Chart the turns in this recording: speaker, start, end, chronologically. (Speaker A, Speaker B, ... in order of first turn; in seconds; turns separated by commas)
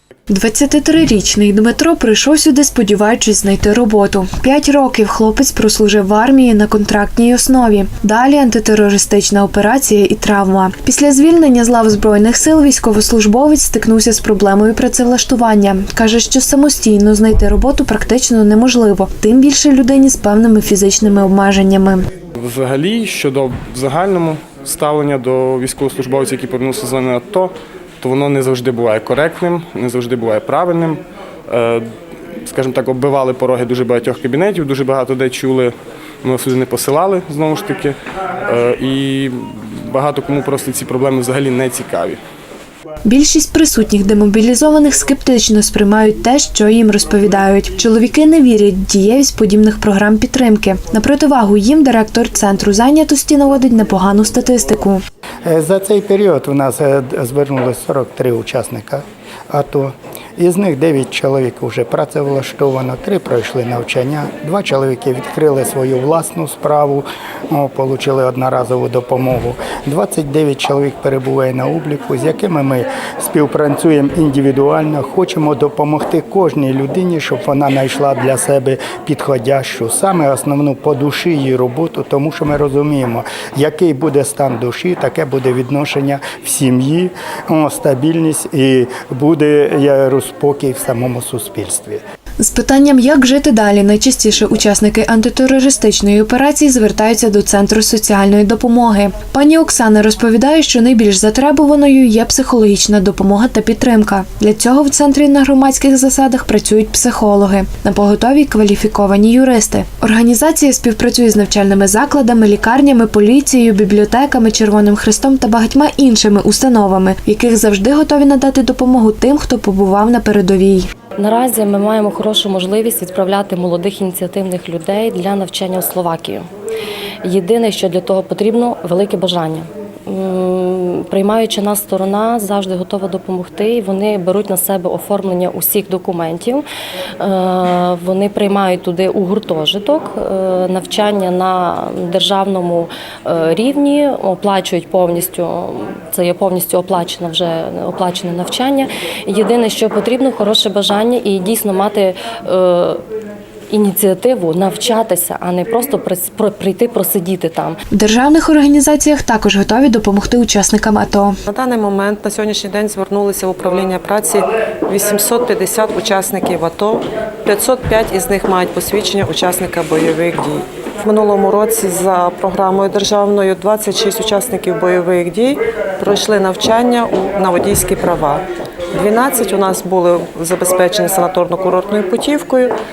Speaker A: 0.3-22.0, Speaker B: 22.4-31.8, Speaker B: 32.5-42.2, Speaker A: 43.0-55.0, Speaker C: 55.4-92.0, Speaker A: 92.4-120.9, Speaker D: 121.2-126.5, Speaker D: 127.2-136.6, Speaker D: 137.2-153.0, Speaker D: 153.7-157.8, Speaker A: 157.9-161.3, Speaker E: 161.5-182.7